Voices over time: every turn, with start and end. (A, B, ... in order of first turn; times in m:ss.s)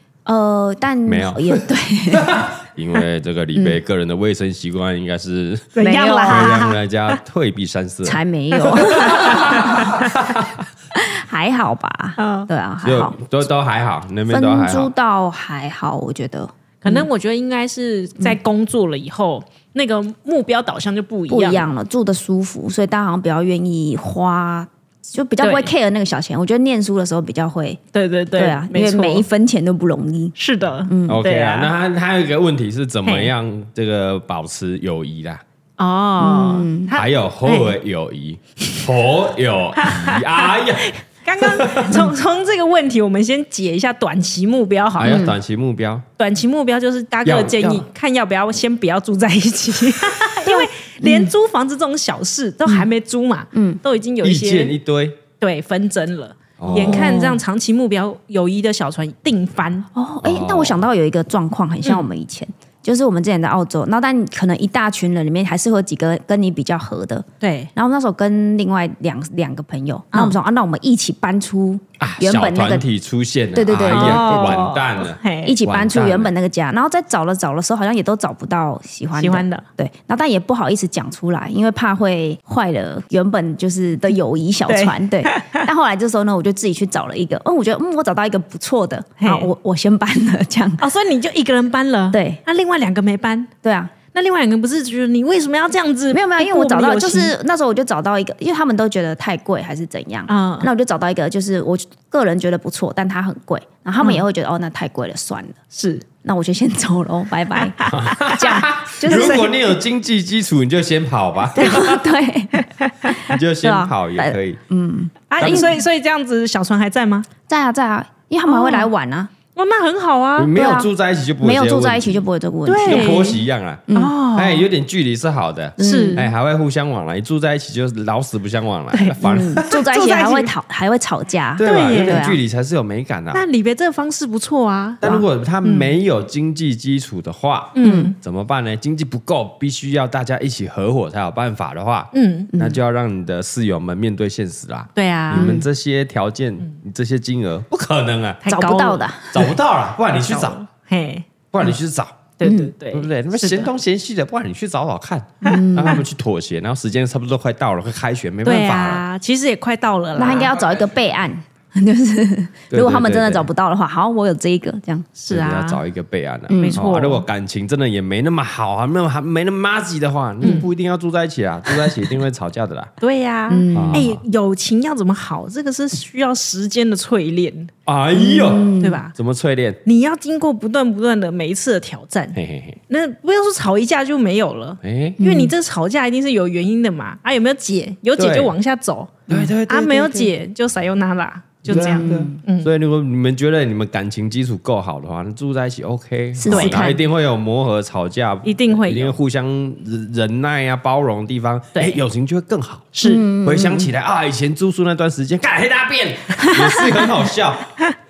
0:00.2-0:02.4 A
0:01.0-0:08.2 B
0:03.5-0:03.8 A
0:05.7-0:06.8 C
0:05.8-0:06.6 A
0:08.0-0:09.9 A
0:08.6-0:10.1 C
0:08.8-0:10.6 B
0:10.9-0:13.2 A
0:12.2-0:12.5 C
0:12.8-0:14.9 B
0:14.3-0:17.1 A
0:16.8-0:21.7 C
0:21.3-0:27.8 A
0:25.4-0:25.7 C
0:27.9-0:29.2 C
0:28.3-0:30.4 A
0:30.4-0:31.7 C
0:30.9-0:31.2 A
0:31.1-0:35.4 B
0:33.0-0:33.3 C
0:35.8-0:37.7 C
0:36.2-0:36.9 A
0:36.9-0:42.1 B
0:39.8-0:45.2 C
0:45.0-0:46.0 B
0:45.0-0:45.4 A
0:46.2-0:54.7 C
0:47.2-0:47.8 B
0:50.4-0:51.3 A
0:53.5-0:53.8 A
0:54.2-0:55.2 B
0:55.4-0:59.9 C
0:56.6-0:57.2 B
0:56.7-0:57.4 A
0:59.9-1:12.8 A
1:00.2-1:00.8 B
1:07.4-1:07.7 C
1:12.0-1:16.3 B
1:13.5-1:14.7 A
1:13.9-1:15.6 C
1:15.4-1:30.8 A
1:19.2-1:19.6 C
1:24.7-1:25.6 C
1:29.2-1:29.5 C
1:30.8-1:33.5 C
1:32.1-1:32.4 A
1:33.6-1:33.9 A
1:34.1-1:37.3 C
1:36.1-1:45.6 A
1:40.3-1:40.7 C
1:45.7-1:46.0 C
1:46.2-1:49.5 A
1:47.8-1:48.4 C
1:47.8-1:52.0 B
1:49.1-1:49.4 C
1:51.6-1:55.8 A
1:52.6-1:53.2 C
1:53.2-1:54.6 B
1:55.3-1:57.3 C
1:55.4-1:55.7 B
1:57.5-1:59.3 A
1:58.4-1:58.9 C
1:59.5-2:00.5 C
2:00.4-2:02.2 B
2:00.5-2:00.9 A
2:01.4-2:04.1 A
2:02.6-2:03.4 C
2:02.8-2:09.7 B
2:03.9-2:04.6 C
2:05.8-2:06.3 A
2:05.8-2:06.2 C
2:08.9-2:10.5 C
2:09.2-2:12.4 A
2:11.6-2:13.4 B
2:11.6-2:12.3 C
2:13.3-2:15.0 C
2:15.0-2:28.4 B
2:15.6-2:15.9 C
2:17.8-2:18.1 C
2:17.8-2:18.1 A
2:22.1-2:22.5 C
2:22.5-2:22.8 A
2:25.0-2:25.6 C
2:25.3-2:25.6 A
2:28.4-2:29.1 C
2:28.4-2:29.5 A
2:29.3-2:30.6 B
2:30.1-2:31.2 C
2:31.5-2:32.1 B
2:32.4-2:33.7 C
2:32.4-2:32.7 A
2:32.9-2:39.0 B
2:35.4-2:36.0 A
2:38.4-2:40.6 C
2:40.2-2:45.2 A
2:42.7-2:43.5 B
2:45.2-2:45.8 C
2:45.3-2:52.9 B
2:46.5-2:46.8 A
2:46.6-2:47.2 C
2:53.0-2:57.7 C
2:53.5-2:54.1 A
2:53.7-2:54.2 B
2:57.9-2:59.8 B
2:58.1-2:59.0 A
2:58.8-2:59.1 C
2:59.8-3:02.4 C
3:02.3-3:02.8 B
3:02.9-3:12.7 C
3:04.8-3:05.2 B
3:05.2-3:05.5 A
3:08.2-3:08.5 B
3:09.3-3:10.3 B
3:11.6-3:12.4 A
3:11.7-3:22.9 B
3:16.4-3:17.0 A
3:16.5-3:16.9 C
3:18.4-3:19.2 C
3:22.9-3:23.2 C
3:23.0-3:23.9 A
3:23.4-3:27.7 B